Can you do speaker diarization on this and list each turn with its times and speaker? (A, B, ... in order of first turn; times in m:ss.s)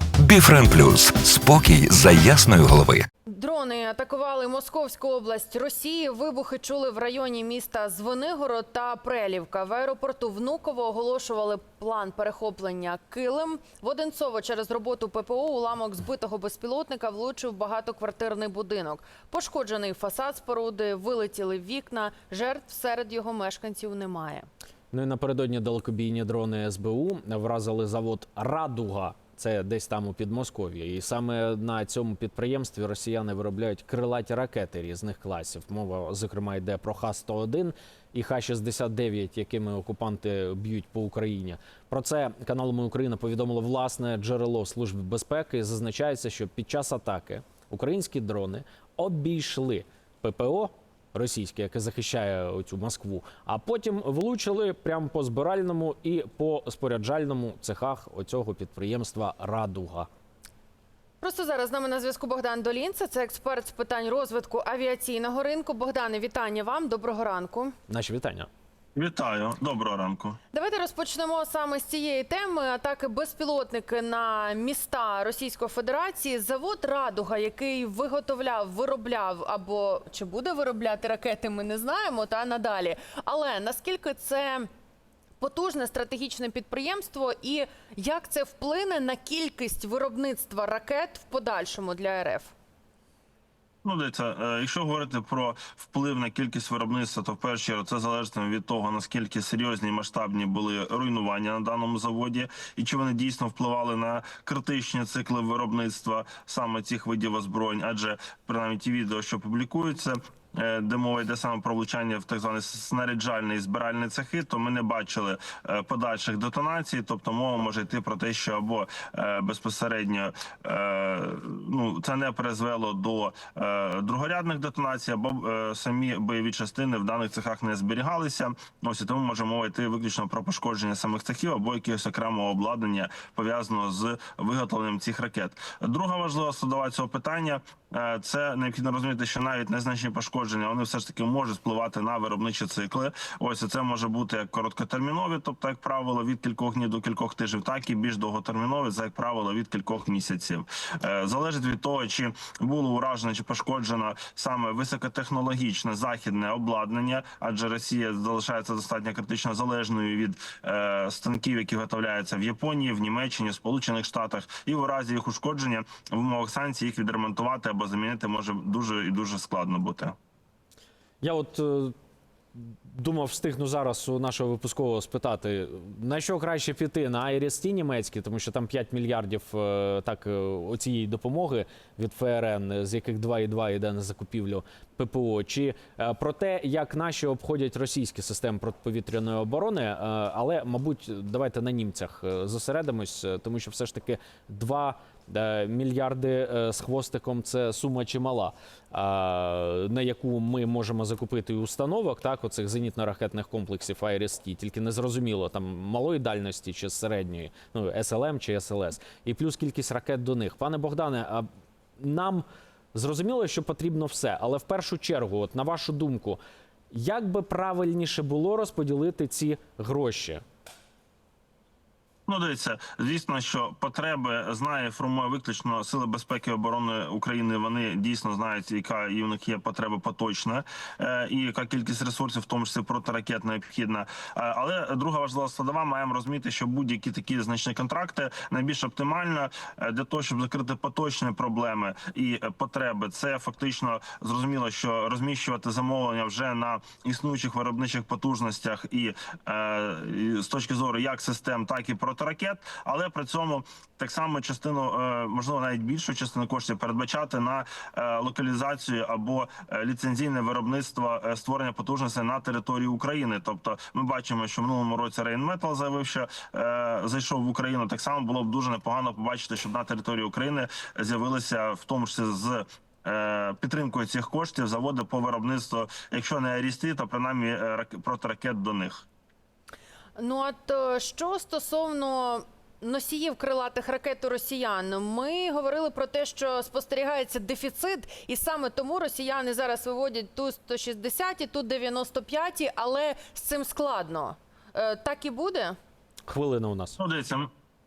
0:00.2-0:03.1 A
0:03.3-0:24.5 B
0:24.9-1:00.1 C
1:01.2-1:07.7 B
1:07.9-1:08.5 C
1:09.0-1:10.4 D
1:10.5-1:24.7 B
1:25.4-1:32.5 B
1:33.8-2:50.2 D
2:51.2-2:51.9 C
2:52.6-3:31.5 C
3:32.0-3:36.4 C
3:36.9-3:40.4 C
3:42.3-4:39.0 D
4:40.2-4:55.8 B
4:56.3-4:57.0 C
4:57.0-4:57.5 D